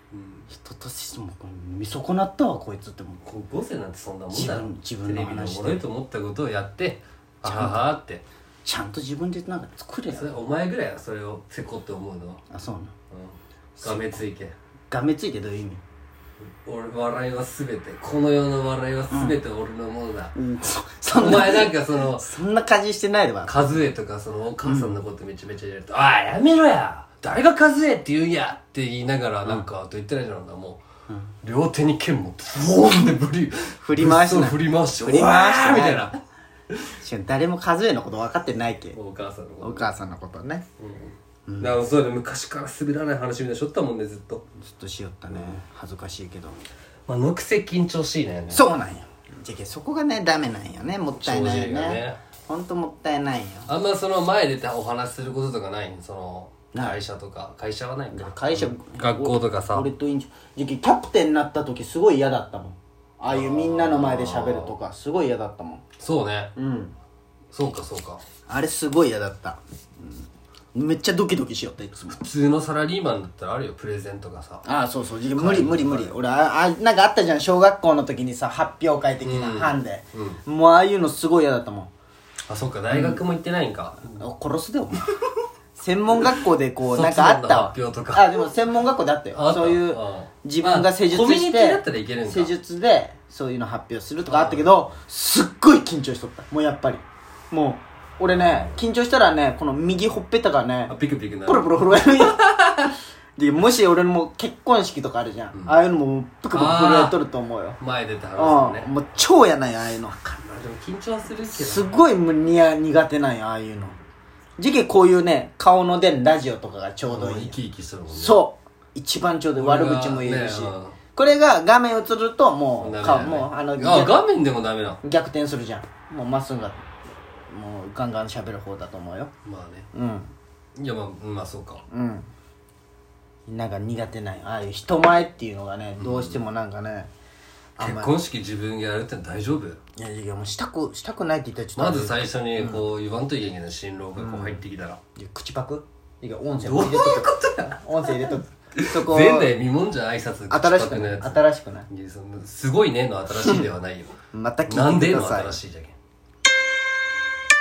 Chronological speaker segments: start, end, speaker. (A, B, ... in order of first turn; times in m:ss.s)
0:00.1-0:00.5 A
0:00.5-0:03.2 B
0:03.2-0:08.2 A
0:04.3-0:05.8 B
0:07.4-0:07.9 B
0:08.6-0:10.4 B
0:10.1-0:12.4 A
0:12.5-0:12.9 B
0:13.1-0:14.5 A
0:13.8-0:14.2 B
0:14.9-0:15.8 B
0:16.4-0:20.4 A
0:19.1-0:19.4 B
0:20.4-0:23.9 B
0:21.1-0:22.3 A
0:23.5-0:30.8 A
0:24.6-0:25.0 B
0:31.4-0:36.2 A
0:33.8-0:36.2 B
0:37.0-0:39.0 B
0:38.9-0:39.9 A
0:39.6-0:40.6 B
0:40.8-0:44.4 A
0:41.5-0:41.8 B
0:44.6-0:46.6 B
0:47.1-0:48.6 A
0:48.5-0:53.7 B
0:51.2-0:52.2 A
0:53.7-0:59.9 A
0:56.7-0:57.0 B
0:58.1-1:05.8 B
1:03.3-1:04.7 A
1:06.0-1:06.5 A
1:06.6-1:06.9 B
1:07.5-1:08.2 A
1:08.5-1:12.2 B
1:12.1-1:14.6 A
1:14.6-1:21.9 B
1:15.4-1:16.2 A
1:19.2-1:20.4 A
1:22.5-1:24.1 A
1:22.9-1:23.2 B
1:24.1-1:25.1 B
1:25.8-1:40.9 B
1:26.9-1:28.5 A
1:29.3-1:32.6 A
1:34.3-1:34.8 A
1:40.9-1:42.9 A
1:41.5-1:42.5 B
1:43.4-1:47.8 B
1:46.5-1:47.2 A
1:47.8-1:48.9 A
1:48.4-1:50.3 B
1:50.3-1:52.0 A
1:51.5-1:54.0 B
1:54.6-1:57.6 B
1:57.1-1:58.4 A
1:58.1-2:04.2 B
1:59.6-2:01.0 A
2:02.8-2:05.0 A
2:05.0-2:06.8 B
2:07.5-2:09.3 B
2:09.4-2:09.9 A
2:09.9-2:10.3 B
2:10.8-2:11.8 A
2:11.9-2:12.3 B
2:13.5-2:17.1 B
2:16.0-2:16.4 A
2:17.8-2:18.2 B
2:17.8-2:19.8 A
2:20.0-2:22.8 B
2:21.8-2:25.0 A
2:24.2-2:24.6 B
2:25.2-2:29.5 B
2:26.6-2:34.2 A
2:30.5-2:31.9 B
2:33.4-2:33.6 B
2:34.3-2:35.6 B
2:34.7-2:36.0 A